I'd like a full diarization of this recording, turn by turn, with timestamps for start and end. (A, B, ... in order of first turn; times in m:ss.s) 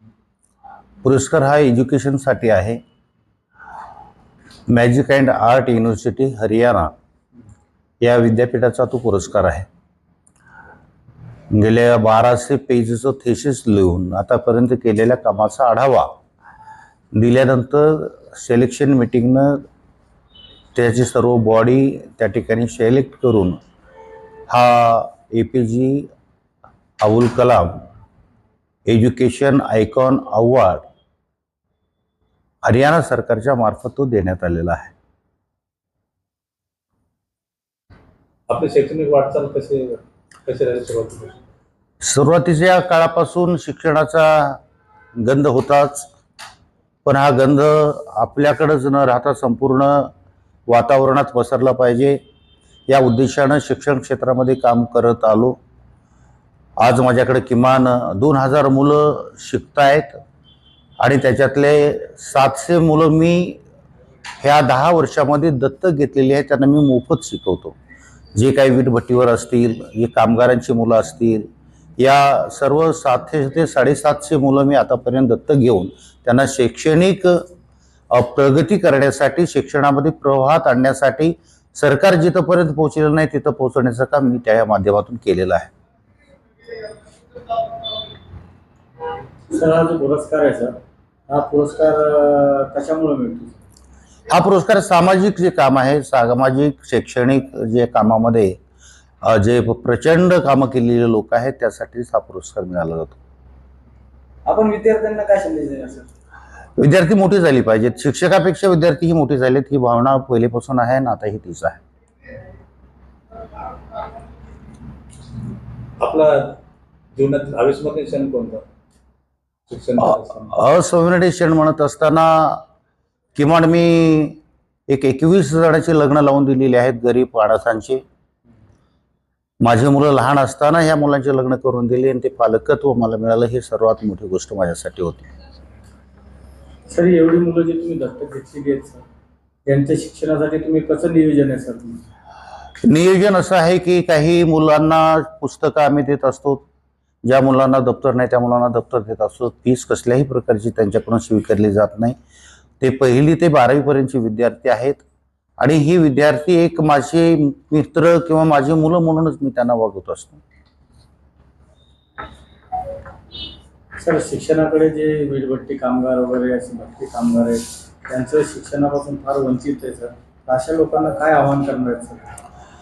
0:01.0-0:02.8 A
0:04.7-0:06.9 A
0:08.0-0:09.7 A
0:11.5-0:16.2 A
0:17.2-0:19.6 A
0:20.8-0:23.6 A
0:24.5-0:26.1 A
0:27.0-0:27.9 A
0:28.9-0:30.8 A
0:32.6-0:34.9 A
0:38.5-0:41.4 B
0:42.0-0:44.6 A
0:45.2-0:46.1 A
0:47.0-0:50.1 A
0:50.7-0:52.2 A
0:52.9-0:55.6 A
0:56.8-1:00.2 A
1:01.0-1:03.6 A
1:04.4-1:07.8 A
1:08.4-1:11.5 A
1:12.0-1:17.4 A
1:18.1-1:25.7 A
1:29.5-1:30.8 C
1:31.3-1:33.6 C
1:34.3-1:38.6 A
1:39.2-1:43.2 A
1:44.5-1:46.1 C
1:46.8-1:51.8 A
1:56.0-1:56.6 B
1:57.2-1:58.6 B
1:59.7-2:00.5 B
2:00.4-2:02.6 A
2:03.4-2:08.0 A
2:09.6-2:15.3 A
2:16.9-2:19.0 C
2:19.7-2:22.0 C
2:22.8-2:26.6 A
2:27.2-2:32.2 A
2:32.8-2:35.0 A
2:35.6-2:40.4 A
2:44.0-2:52.3 C